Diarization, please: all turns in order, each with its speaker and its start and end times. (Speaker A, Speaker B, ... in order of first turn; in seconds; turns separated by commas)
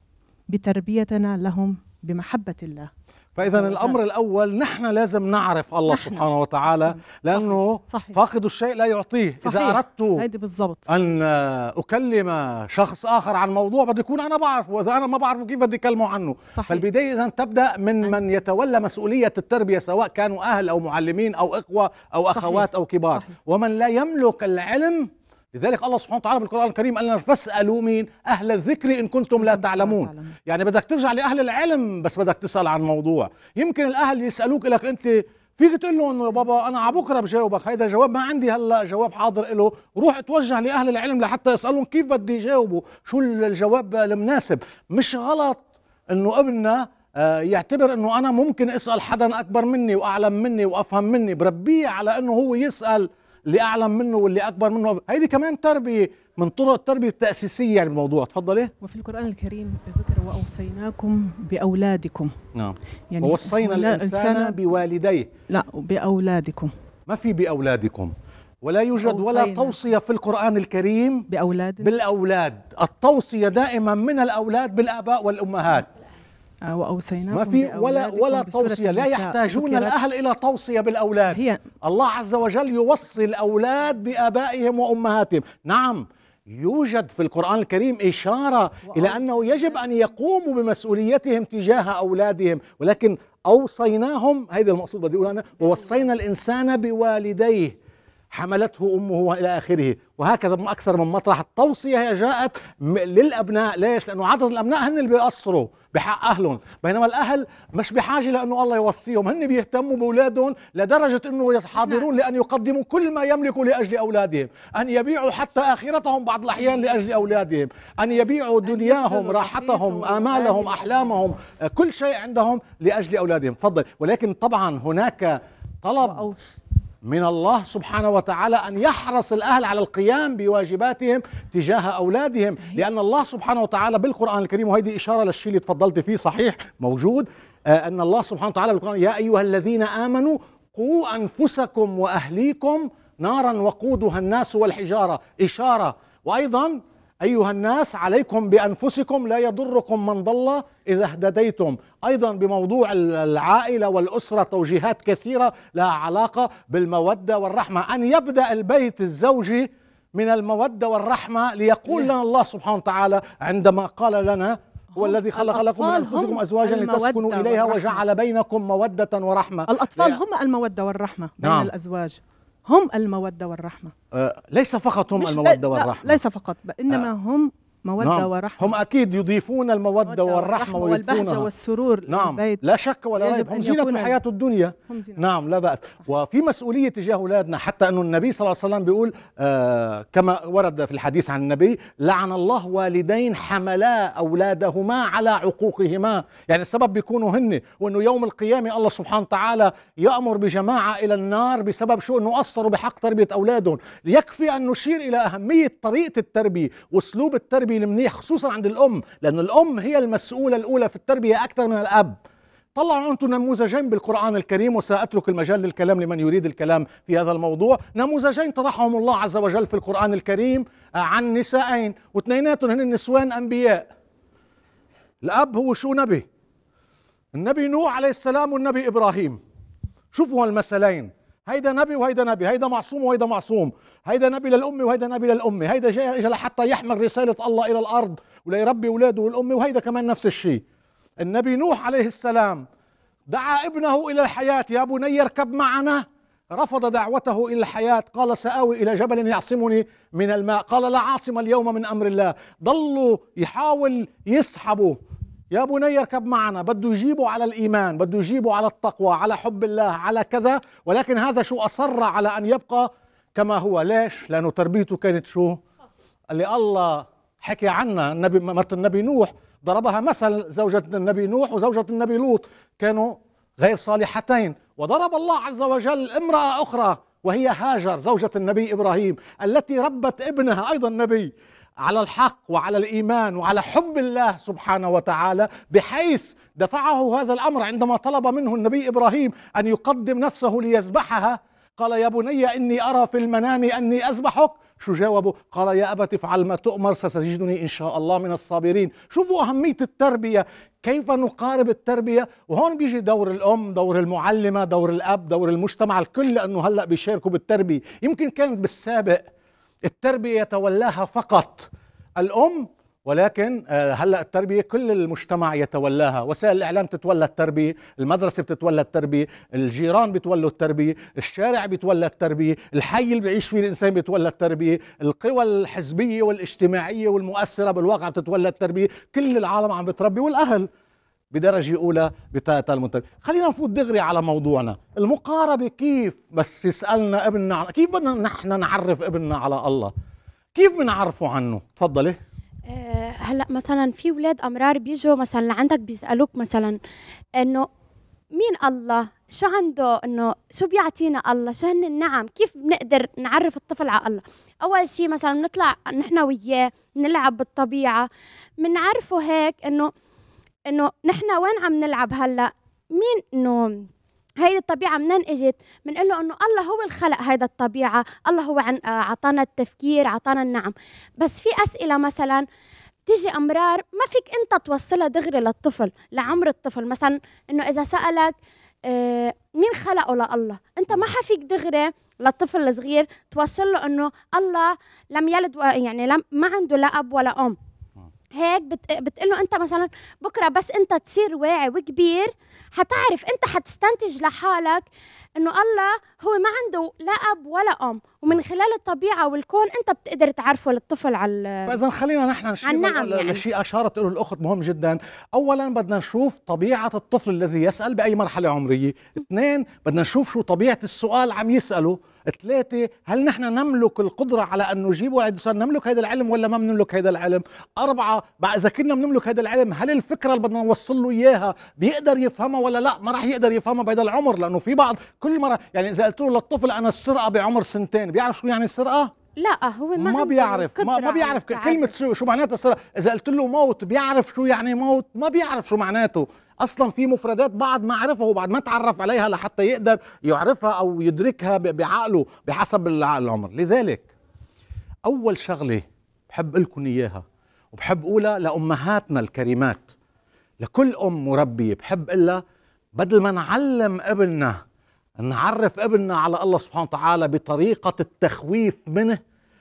Speaker A: 0.5-4.0, Speaker B: 3.4-10.2, Speaker A: 5.9-8.2, Speaker A: 9.4-10.9, Speaker B: 10.9-58.7, Speaker A: 16.5-16.9, Speaker A: 22.3-23.4, Speaker A: 29.4-30.4, Speaker A: 58.8-62.3, Speaker B: 62.5-65.3, Speaker A: 63.1-64.6, Speaker A: 65.5-66.7, Speaker B: 67.1-71.3, Speaker A: 69.0-69.8, Speaker A: 71.3-72.0, Speaker B: 71.8-75.9, Speaker A: 76.7-80.0, Speaker B: 77.3-97.8, Speaker A: 81.3-81.6, Speaker A: 88.9-90.0, Speaker A: 95.6-96.0, Speaker B: 98.3-126.3, Speaker A: 111.8-112.1, Speaker A: 118.6-121.2, Speaker A: 126.0-126.4, Speaker B: 127.0-170.2, Speaker A: 165.0-168.0, Speaker A: 169.7-173.9, Speaker B: 171.4-171.7, Speaker B: 174.1-176.2, Speaker A: 175.2-178.8, Speaker B: 178.0-181.5, Speaker A: 180.1-182.6, Speaker B: 182.1-212.2, Speaker A: 183.2-184.2, Speaker A: 184.9-185.3, Speaker B: 212.8-223.9, Speaker B: 225.2-226.3, Speaker B: 227.3-229.4, Speaker B: 230.1-240.6, Speaker B: 241.2-242.7, Speaker B: 243.3-255.0, Speaker B: 255.5-265.6, Speaker B: 266.3-309.3, Speaker B: 309.9-330.7, Speaker B: 331.3-339.9, Speaker B: 340.6-342.2, Speaker C: 342.7-346.8, Speaker C: 347.4-347.7, Speaker C: 348.4-358.1, Speaker C: 358.6-359.9, Speaker C: 360.7-363.9, Speaker C: 364.4-372.5, Speaker C: 373.1-378.4, Speaker C: 378.9-387.6, Speaker C: 388.4-394.9, Speaker C: 395.4-401.8, Speaker B: 401.7-429.1, Speaker C: 402.7-403.4, Speaker C: 429.4-431.9, Speaker B: 430.0-444.1, Speaker B: 445.1-449.9, Speaker B: 450.6-452.4, Speaker B: 453.0-454.6, Speaker B: 455.2-459.2